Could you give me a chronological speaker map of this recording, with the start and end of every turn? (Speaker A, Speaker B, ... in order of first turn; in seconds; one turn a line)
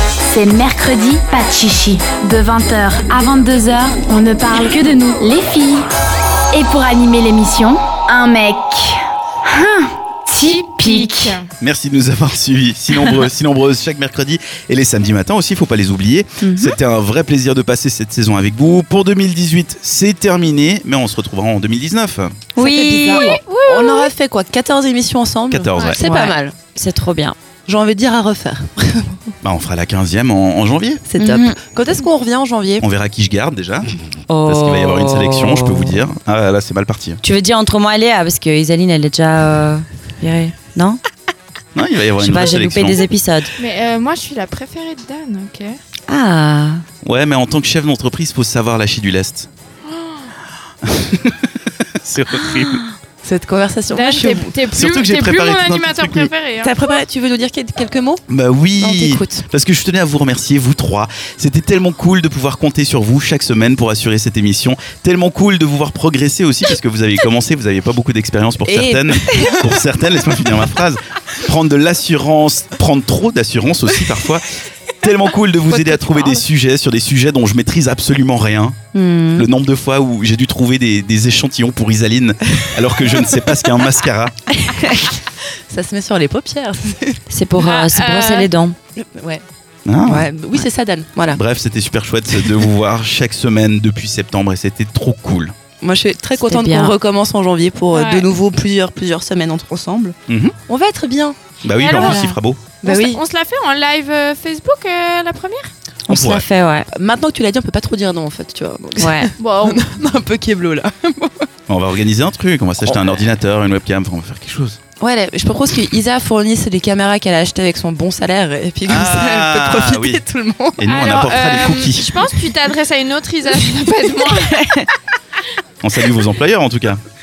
Speaker A: 0.2-5.9
Speaker A: 6.5-11.4
Speaker B: 10.4-11.4
Speaker C: 11.6-22.4
Speaker D: 16.4-16.8
Speaker D: 22.6-23.4
Speaker E: 22.6-26.6
Speaker B: 23.3-24.1
Speaker C: 25.5-26.0
Speaker B: 25.7-26.0
Speaker D: 26.0-27.4
Speaker E: 27.7-29.2
Speaker C: 29.4-31.0
Speaker E: 31.1-32.9
Speaker D: 31.2-31.6
Speaker C: 32.8-37.2
Speaker D: 34.3-36.0
Speaker D: 37.2-41.0
Speaker C: 41.7-43.0
Speaker D: 42.2-43.5
Speaker B: 43.6-45.8
Speaker D: 46.1-46.8
Speaker C: 47.0-49.5
Speaker C: 50.8-52.8
Speaker E: 53.2-54.6
Speaker B: 53.9-57.0
Speaker C: 54.7-56.3
Speaker E: 56.6-58.2
Speaker C: 58.3-74.5
Speaker E: 58.8-59.5
Speaker E: 68.6-69.8
Speaker C: 75.0-78.8
Speaker E: 75.7-76.4
Speaker D: 78.9-79.5
Speaker C: 79.3-84.3
Speaker E: 85.0-87.2
Speaker D: 87.3-88.8
Speaker B: 87.6-88.5
Speaker E: 89.0-89.4
Speaker C: 89.8-90.3
Speaker E: 90.0-91.4
Speaker C: 91.3-95.5
Speaker E: 95.8-100.2
Speaker D: 96.3-96.9
Speaker B: 97.9-98.3
Speaker C: 100.3-100.5
Speaker E: 100.7-103.2
Speaker C: 101.6-102.6
Speaker B: 101.7-102.3
Speaker B: 102.8-105.7
Speaker D: 106.1-106.9
Speaker C: 106.1-106.4
Speaker E: 106.9-111.5
Speaker D: 109.0-109.3
Speaker B: 109.4-109.8
Speaker C: 111.7-114.8
Speaker E: 115.0-121.0
Speaker C: 118.8-120.2
Speaker C: 120.8-122.2
Speaker B: 120.8-124.6
Speaker C: 125.8-127.0